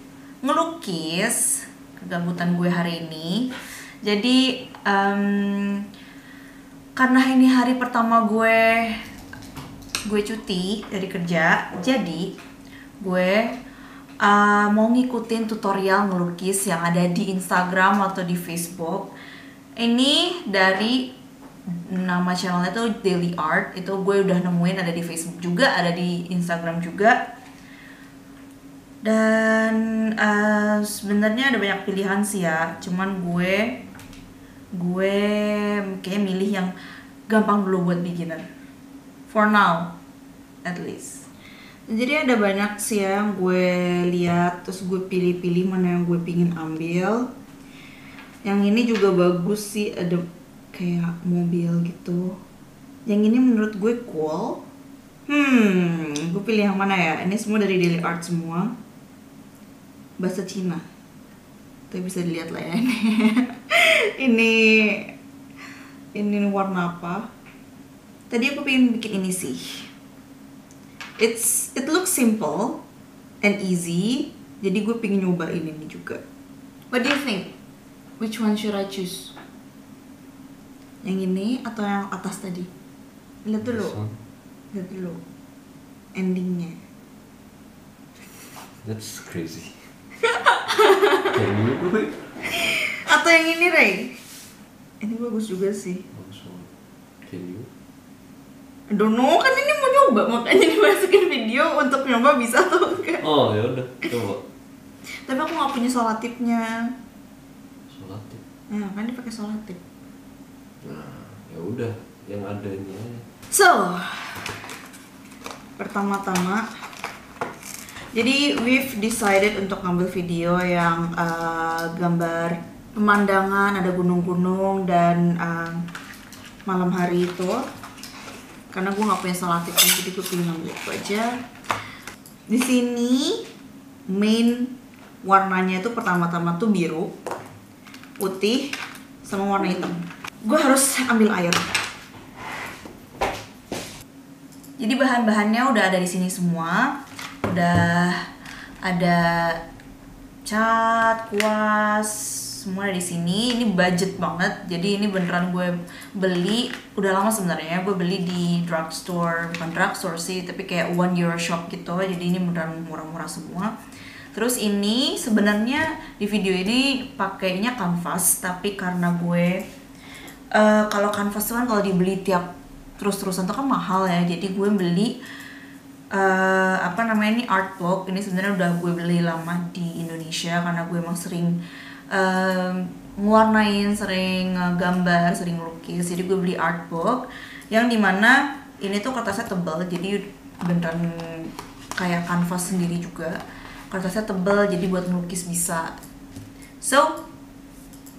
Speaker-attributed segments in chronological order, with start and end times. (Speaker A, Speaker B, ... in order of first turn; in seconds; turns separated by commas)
Speaker A: 0.4-3.5, Speaker A: 4.0-5.8, Speaker A: 7.0-9.0, Speaker A: 10.0-12.3, Speaker A: 13.0-13.6, Speaker A: 14.2-19.1, Speaker A: 19.8-21.1, Speaker A: 21.7-27.2, Speaker A: 29.0-33.8, Speaker A: 34.8-36.7, Speaker A: 37.3-38.4, Speaker A: 39.3-39.9, Speaker A: 40.6-41.2, Speaker A: 41.9-47.3, Speaker A: 48.4-52.4, Speaker A: 53.0-54.6, Speaker A: 55.3-58.7, Speaker A: 60.2-60.8, Speaker A: 61.9-65.1, Speaker A: 66.2-67.3, Speaker A: 68.3-69.9, Speaker A: 71.2-72.8, Speaker A: 73.4-76.2, Speaker A: 76.9-77.5, Speaker A: 78.2-79.3, Speaker A: 81.0-82.7, Speaker A: 83.5-84.0, Speaker B: 83.6-84.2, Speaker A: 84.7-85.2, Speaker A: 86.1-86.8, Speaker B: 88.8-89.9, Speaker A: 90.3-91.3, Speaker B: 91.2-92.3, Speaker A: 92.5-94.2, Speaker A: 95.0-96.0, Speaker B: 96.1-96.7, Speaker B: 97.2-97.7, Speaker A: 98.9-103.2, Speaker B: 103.2-104.4, Speaker A: 105.2-106.7, Speaker B: 107.9-108.4, Speaker A: 108.7-109.8, Speaker B: 110.8-113.2, Speaker A: 113.5-114.5, Speaker A: 115.8-116.7, Speaker A: 118.1-125.8, Speaker A: 126.7-127.6, Speaker A: 128.7-131.3, Speaker A: 132.5-133.4, Speaker A: 134.1-137.1, Speaker A: 138.2-138.7, Speaker A: 139.2-141.6, Speaker A: 144.8-146.9, Speaker A: 147.4-148.2, Speaker A: 148.8-149.6, Speaker A: 150.4-163.7, Speaker A: 164.3-169.6, Speaker A: 170.5-175.2, Speaker A: 176.1-181.6, Speaker A: 182.1-193.4, Speaker A: 193.9-195.9, Speaker A: 196.8-197.2